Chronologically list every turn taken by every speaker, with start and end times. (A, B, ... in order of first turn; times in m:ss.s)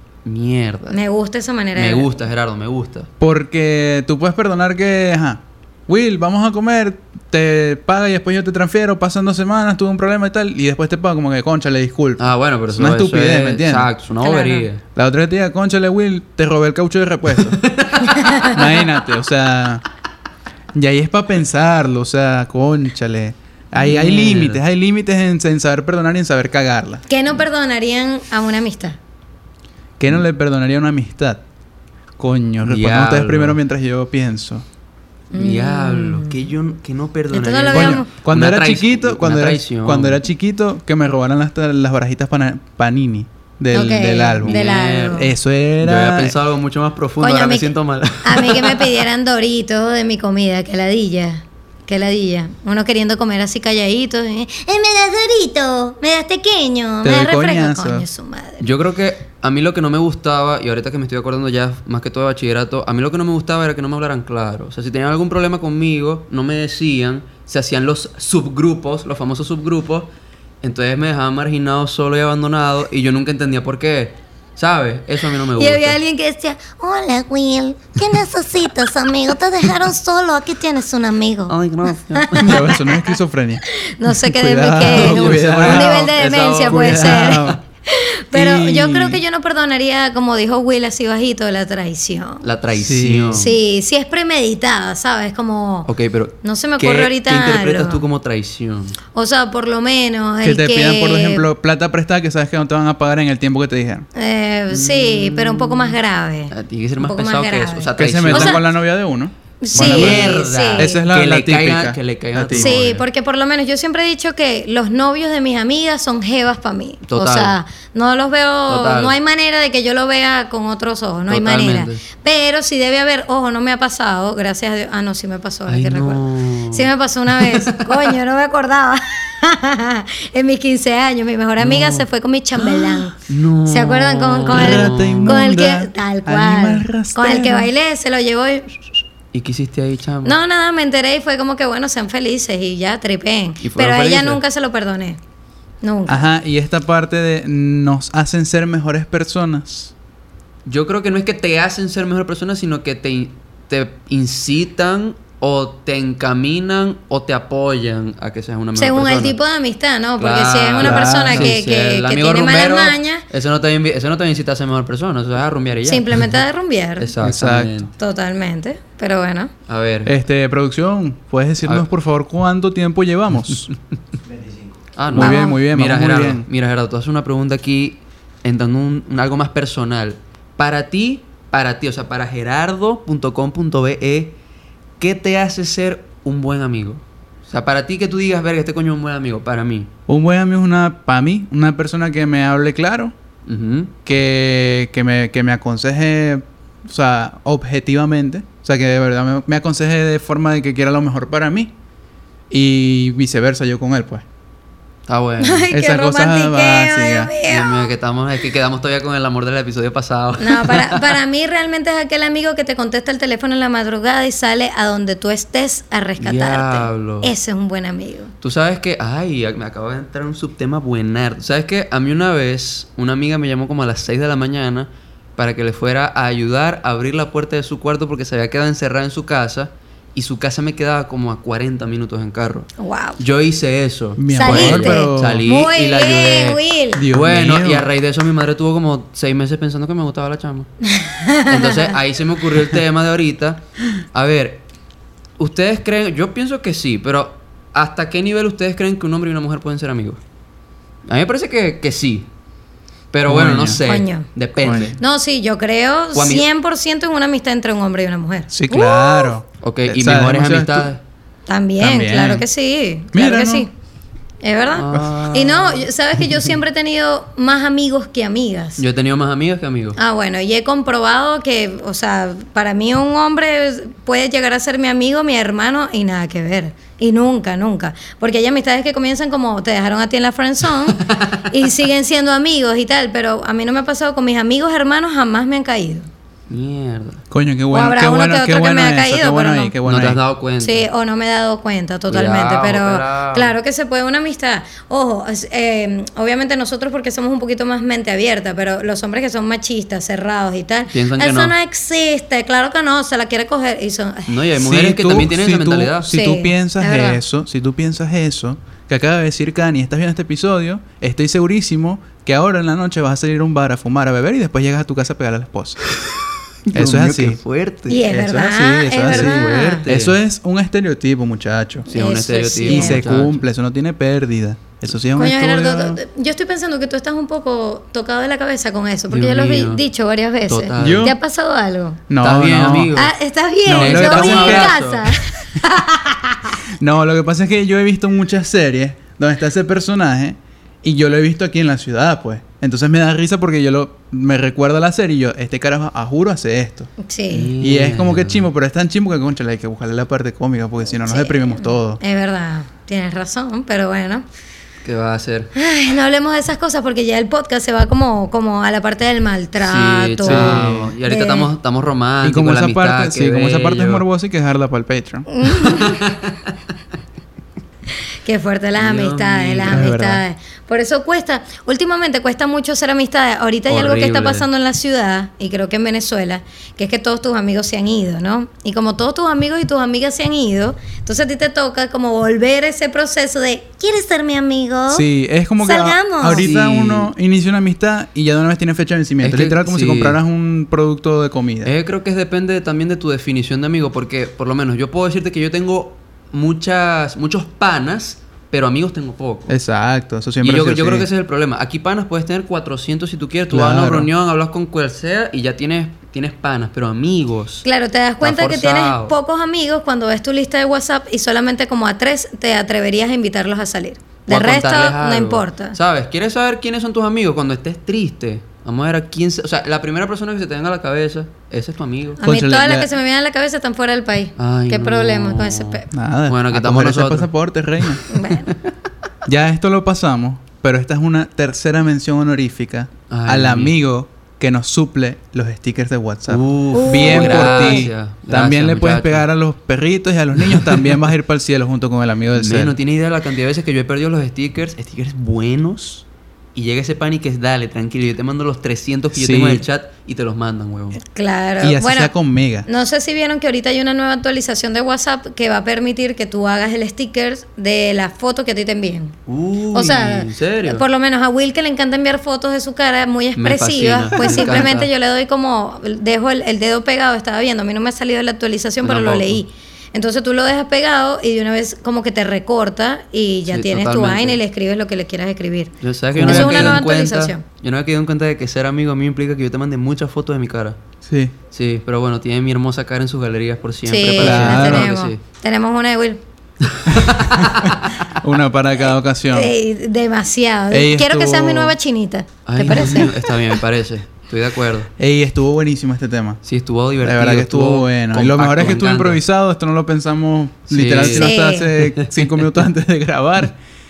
0:00.2-0:01.0 A
0:00.9-0:02.1 B
0:01.7-0:03.1 A
0:03.2-0:13.9 C
0:12.2-0:14.8 A
0:14.2-0:14.6 B
0:14.9-0:17.6 C
0:17.4-0:18.6 A
0:18.0-0:18.6 B
0:18.4-0:19.8 C
0:20.7-0:27.0 C
0:23.8-0:24.6 A
0:27.1-0:29.0 B
0:30.0-0:31.4 C
0:32.2-0:34.6 C
0:32.6-0:33.6 A
0:35.3-0:36.4 B
0:35.3-0:40.2 A
0:37.3-0:38.1 B
0:37.7-0:46.4 C
0:43.7-0:45.3 B
0:44.4-0:49.0 A
0:47.2-0:58.6 B
0:57.0-0:58.1 C
0:58.6-1:10.1 A
1:10.6-1:16.0 A
1:15.5-1:21.5 B
1:21.5-1:22.6 A
1:22.1-1:23.0 B
1:22.4-1:26.1 C
1:23.7-1:32.4 B
1:24.8-1:27.6 A
1:26.7-1:27.6 C
1:28.3-1:29.2 C
1:32.4-1:33.6 A
1:32.8-1:33.5 C
1:33.3-1:35.9 B
1:35.8-1:39.0 A
1:36.4-1:38.0 B
1:39.1-1:41.4 B
1:40.4-1:44.1 C
1:44.1-1:48.6 B
1:44.7-1:46.0 A
1:46.5-1:48.6 A
1:48.0-1:52.8 C
1:49.6-1:51.0 B
1:49.7-1:53.0 A
1:52.5-2:19.0 B
1:57.1-1:57.5 A
1:58.7-1:59.1 A
2:01.3-2:02.0 A
2:05.7-2:08.1 A
2:11.6-2:12.0 A
2:12.6-2:15.4 A
2:14.5-2:17.7 C
2:19.3-2:20.4 A
2:20.2-2:25.2 B
2:23.6-2:24.4 A
2:25.8-2:26.2 B
2:26.1-2:29.9 C
2:30.6-2:39.4 A
2:38.8-2:43.2 B
2:40.2-2:46.3 A
2:40.8-2:41.6 C
2:45.8-2:47.1 B
2:47.0-2:47.9 A
2:47.2-2:47.8 C
2:48.0-2:49.5 B
2:49.7-2:50.1 A
2:50.0-2:53.7 C
2:55.0-3:04.4 A
2:55.1-2:56.5 C
2:55.1-2:55.6 B
3:05.0-3:09.9 A
3:10.1-3:13.1 C
3:13.5-3:13.9 A
3:14.0-3:21.7 C
3:22.5-3:24.2 C
3:25.1-3:25.7 A
3:25.4-3:27.9 B
3:25.7-3:27.3 C
3:27.4-3:31.2 A
3:30.4-3:38.3 B
3:36.2-3:37.3 A
3:38.4-4:00.7 A
3:52.8-3:53.2 B
3:54.2-3:55.4 C
3:54.3-3:57.0 B
3:56.9-3:57.9 C
4:00.8-4:01.9 B
4:01.5-4:04.6 A
4:05.4-4:10.2 A
4:11.1-4:12.3 A
4:13.1-4:15.0 A
4:13.2-4:13.8 C
4:13.8-4:14.3 B
4:14.6-4:15.0 C
4:15.0-4:19.3 B
4:16.1-4:16.5 A
4:18.5-4:20.9 C
4:19.6-4:21.0 A
4:21.5-4:23.7 B
4:21.8-4:22.4 C
4:23.1-4:23.6 C
4:24.4-4:28.8 B
4:24.7-4:25.9 A
4:28.8-4:30.0 A
4:30.0-4:46.1 B
4:41.0-4:41.4 A
4:46.5-4:47.2 A
4:47.3-4:50.2 C
4:47.7-4:49.7 B
4:49.8-4:50.8 A
4:50.6-5:04.5 B
4:52.1-4:53.5 A
5:00.9-5:01.5 A
5:04.3-5:06.1 A
5:04.6-5:15.8 C
5:06.1-5:07.2 B
5:15.9-5:18.2 A
5:16.7-5:17.4 C
5:17.9-5:19.8 B
5:18.1-5:21.9 C
5:19.0-5:20.2 A
5:21.9-5:23.2 B
5:21.9-5:23.4 A
5:22.6-5:26.0 C
5:25.2-5:32.0 B
5:29.1-5:29.8 A
5:30.5-5:31.1 A
5:30.8-5:31.2 C
5:32.1-5:32.9 C
5:32.2-5:33.1 A
5:32.9-5:36.6 B
5:33.6-5:34.8 C
5:33.7-5:35.2 A
5:36.8-5:46.9 C
5:47.0-5:47.5 B
5:47.3-5:48.5 A
5:47.6-5:52.0 C
5:51.0-5:54.2 B
5:54.8-5:55.5 A
5:55.5-6:01.5 B
5:59.6-6:04.0 A
6:00.2-6:00.9 C
6:02.2-6:05.3 C
6:05.3-6:06.1 B
6:05.6-6:06.4 A
6:08.2-6:25.0 B
6:08.8-6:09.9 A
6:09.6-6:10.2 C
6:13.7-6:14.4 A
6:24.9-6:31.7 C
6:25.6-6:26.5 B
6:26.3-6:27.1 A
6:29.2-6:30.2 A
6:31.6-6:39.5 A
6:39.5-6:41.1 C
6:40.4-6:47.6 A
6:43.5-6:44.1 C
6:47.6-6:55.8 B
6:48.2-6:49.2 A
6:54.3-7:02.2 A
7:02.2-7:05.8 B
7:02.2-7:02.9 C
7:04.4-7:08.5 A
7:05.9-7:08.0 C
7:08.1-7:08.5 B
7:09.3-7:22.7 C
7:13.1-7:13.7 A
7:16.3-7:19.2 A
7:16.7-7:17.9 B
7:20.4-7:21.0 A
7:22.3-7:31.0 A
7:29.1-7:29.6 C
7:31.0-7:32.1 B
7:31.6-7:32.7 C
7:32.6-7:39.2 B
7:39.3-7:40.8 A
7:39.7-7:57.4 B
7:43.4-7:44.9 A
7:48.8-7:49.4 A
7:53.5-7:54.4 A
7:55.8-8:00.8 A
7:56.1-7:56.8 C
8:01.0-8:01.3 C
8:01.5-8:05.2 A
8:03.8-8:06.2 B
8:04.2-8:04.9 C
8:06.7-8:08.0 A
8:06.9-8:09.5 C
8:09.3-8:13.4 B
8:10.7-8:11.7 C
8:12.4-8:14.9 A
8:15.0-8:16.4 C
8:16.4-8:19.2 A
8:17.0-8:23.6 C
8:20.7-8:21.3 A
8:21.0-8:21.7 B
8:21.9-8:22.4 A